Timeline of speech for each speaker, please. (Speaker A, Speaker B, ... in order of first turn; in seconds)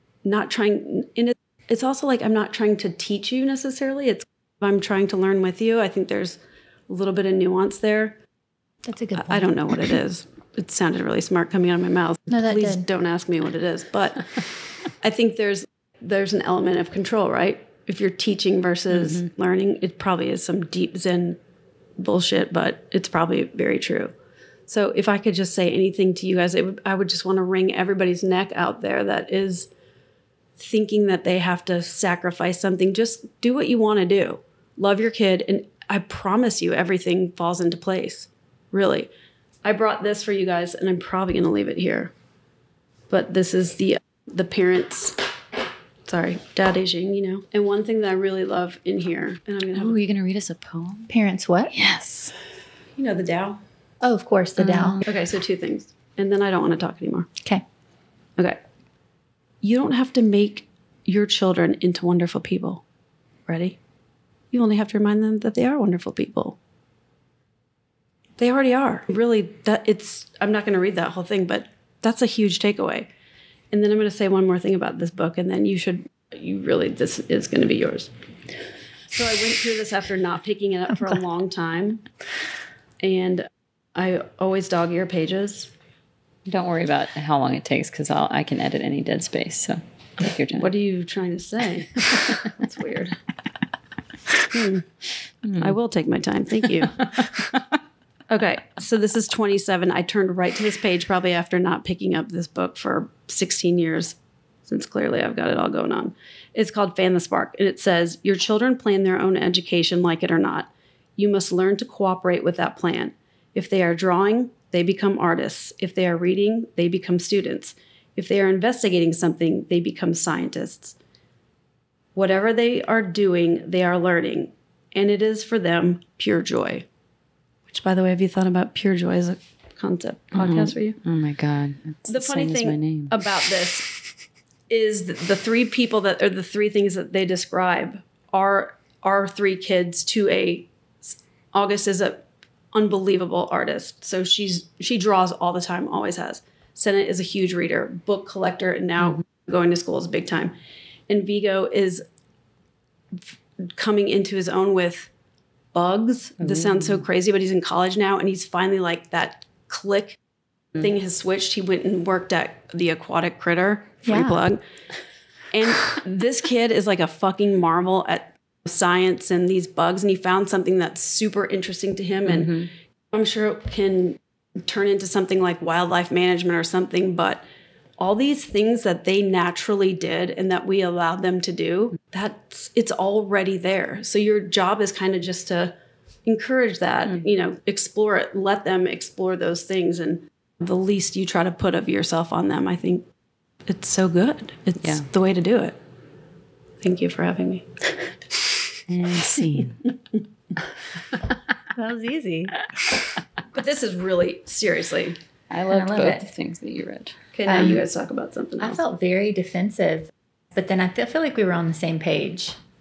Speaker A: 0.2-8.2, 9.2-21.4, 22.0-24.1, 24.7-29.7, 30.6-39.1, 39.6-42.1, 43.1-45.2, 46.1-50.0, 53.0-53.6, 55.0-57.3, 59.6-62.8, 63.5-63.8, 64.5-66.6, 68.4-73.1, 73.7-78.1, 79.1-82.0, 83.0-85.7, 90.5-93.2, 94.5-94.8, 95.6-97.2, 98.3-104.2, 104.7-121.0, 122.2-126.8, 127.7-131.0, 132.1-133.9, 134.7-150.5, 151.1-152.0, 153.2-155.1, 155.7-160.2, 160.7-164.6, 165.5-177.4, 178.0-185.7, 186.2-193.1, 193.7-195.8, 196.8-197.7, 203.5-205.2, 207.3-208.8
Speaker B: 8.8-9.9, 12.3-12.8, 51.1-51.7, 54.0-55.0, 164.1-164.4, 201.7-203.1, 205.7-206.3, 207.4-207.8, 208.6-212.6
Speaker C: 19.0-19.3, 49.7-51.1, 51.7-52.3, 54.6-55.0, 86.5-90.7, 92.0-92.5, 95.4-95.7, 96.9-97.7, 130.3-133.2, 156.4-157.0, 172.2-172.7, 194.8-195.1, 198.9-199.9, 205.5-207.2